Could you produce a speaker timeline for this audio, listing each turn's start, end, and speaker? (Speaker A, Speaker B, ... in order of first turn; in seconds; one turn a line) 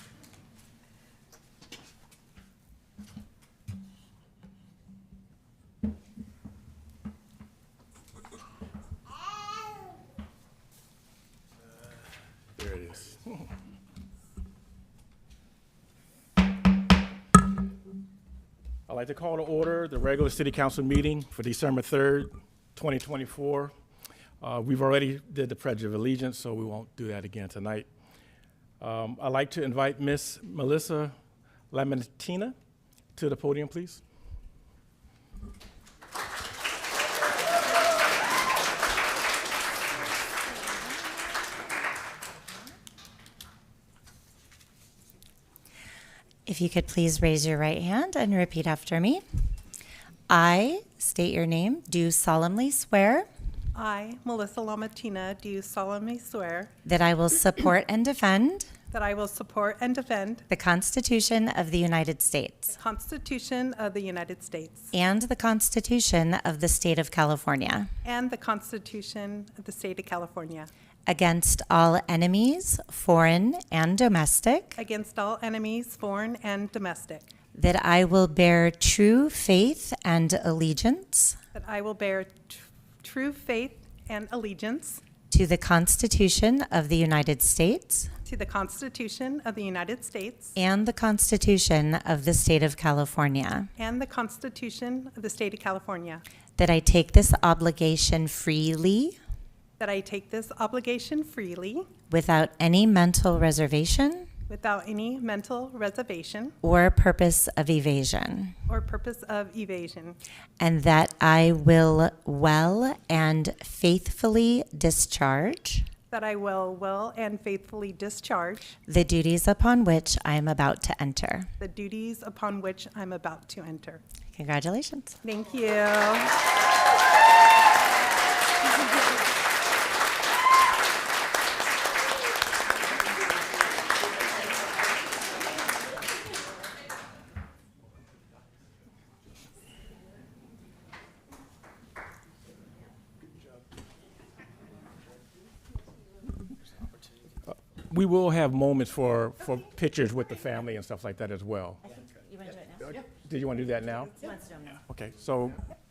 Speaker A: 12.6-13.4
Speaker A: 18.9-23.7
Speaker A: 24.4-27.9
Speaker A: 28.8-31.1
Speaker A: 31.7-32.5
Speaker A: 33.1-34.0
Speaker B: 46.5-49.2
Speaker B: 50.3-53.3
Speaker C: 53.7-56.7
Speaker B: 56.8-58.7
Speaker C: 58.9-60.4
Speaker B: 60.5-62.7
Speaker C: 62.7-64.9
Speaker B: 64.9-67.9
Speaker C: 68.0-70.7
Speaker B: 71.1-74.8
Speaker C: 74.8-77.2
Speaker B: 77.5-81.4
Speaker C: 81.5-85.0
Speaker B: 85.3-88.1
Speaker C: 88.2-90.5
Speaker B: 90.5-93.7
Speaker C: 93.8-96.2
Speaker B: 96.6-99.2
Speaker C: 99.8-101.9
Speaker B: 102.1-104.3
Speaker C: 104.5-106.5
Speaker B: 106.6-108.5
Speaker C: 108.7-110.2
Speaker B: 110.6-115.9
Speaker C: 116.1-118.8
Speaker B: 118.9-121.5
Speaker C: 121.6-124.0
Speaker B: 124.3-125.2
Speaker C: 125.2-126.3
Speaker A: 147.8-151.8
Speaker B: 151.9-153.0
Speaker A: 152.9-154.2
Speaker B: 154.2-154.8
Speaker A: 154.9-155.6